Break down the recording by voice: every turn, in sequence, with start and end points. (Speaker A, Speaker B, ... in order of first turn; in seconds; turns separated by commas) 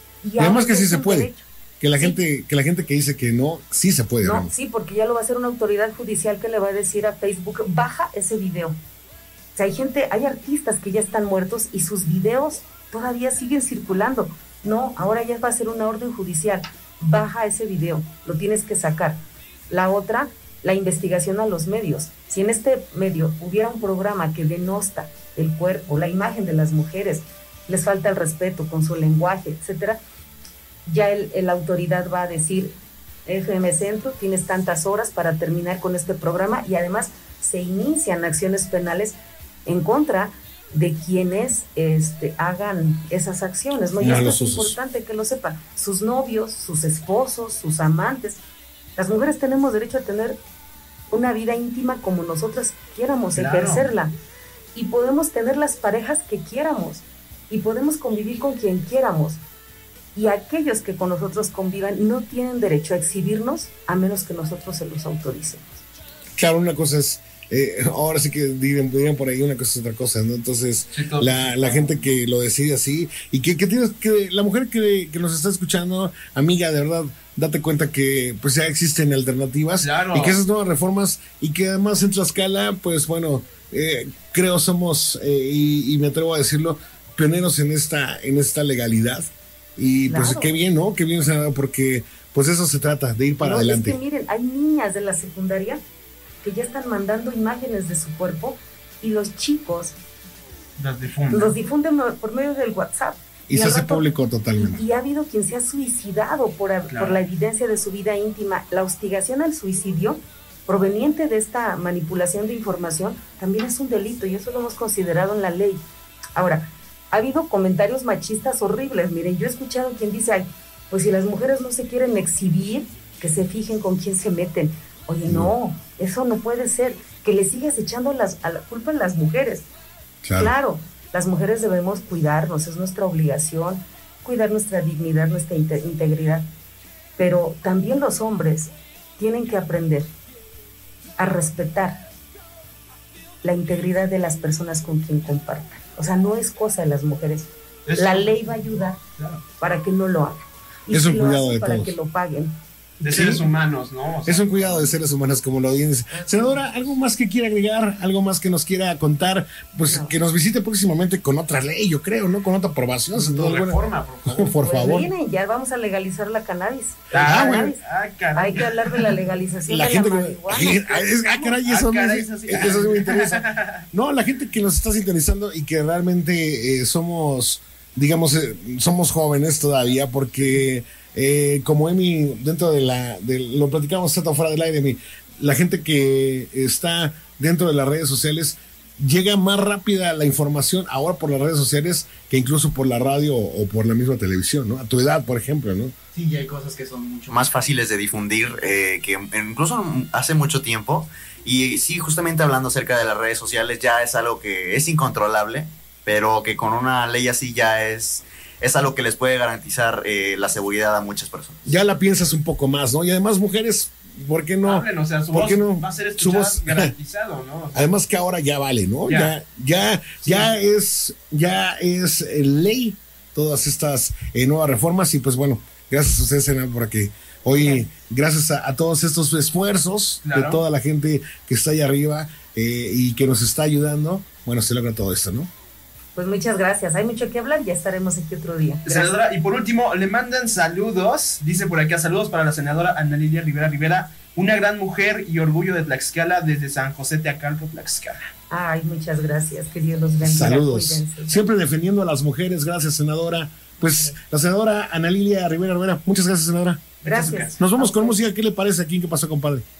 Speaker A: 0.2-2.2, Speaker B: 0.4-4.5, Speaker A: 4.2-8.8, Speaker A: 9.6-30.0, Speaker A: 30.9-32.7, Speaker A: 33.3-48.4, Speaker B: 44.0-44.8, Speaker A: 49.0-50.4, Speaker A: 51.1-54.1, Speaker C: 53.4-53.9, Speaker A: 54.8-59.4, Speaker A: 60.1-65.8, Speaker B: 66.4-94.0, Speaker C: 70.9-72.1, Speaker C: 79.8-80.4, Speaker A: 90.1-90.5, Speaker A: 93.4-95.8, Speaker A: 96.4-100.0, Speaker C: 100.8-101.6, Speaker A: 101.3-104.1, Speaker B: 103.5-104.8, Speaker A: 104.6-115.8, Speaker C: 106.9-107.2, Speaker A: 116.4-129.7, Speaker B: 125.3-125.5, Speaker B: 130.2-130.5, Speaker A: 130.4-136.4, Speaker A: 137.2-140.1, Speaker A: 141.2-142.1, Speaker A: 143.4-149.0, Speaker C: 147.9-148.4, Speaker C: 149.2-149.4, Speaker A: 149.6-152.6, Speaker B: 150.9-151.9, Speaker C: 153.0-154.9, Speaker B: 153.1-153.4, Speaker B: 154.3-165.1, Speaker A: 156.1-156.6, Speaker A: 159.9-160.2, Speaker C: 163.1-164.5, Speaker A: 164.6-167.8, Speaker C: 167.1-169.2, Speaker B: 167.1-167.7, Speaker A: 168.3-171.0, Speaker B: 169.7-195.9, Speaker C: 171.3-173.8, Speaker D: 196.1-211.6, Speaker B: 211.7-216.9, Speaker C: 214.6-217.9, Speaker B: 217.7-235.5, Speaker C: 219.1-219.4, Speaker C: 220.2-220.6, Speaker A: 227.5-227.9, Speaker C: 230.2-230.6, Speaker A: 236.2-239.1, Speaker C: 238.9-248.3, Speaker A: 248.5-251.4, Speaker B: 250.2-256.9, Speaker A: 253.8-254.2, Speaker C: 257.0-257.6, Speaker A: 257.0-258.2, Speaker B: 257.6-259.6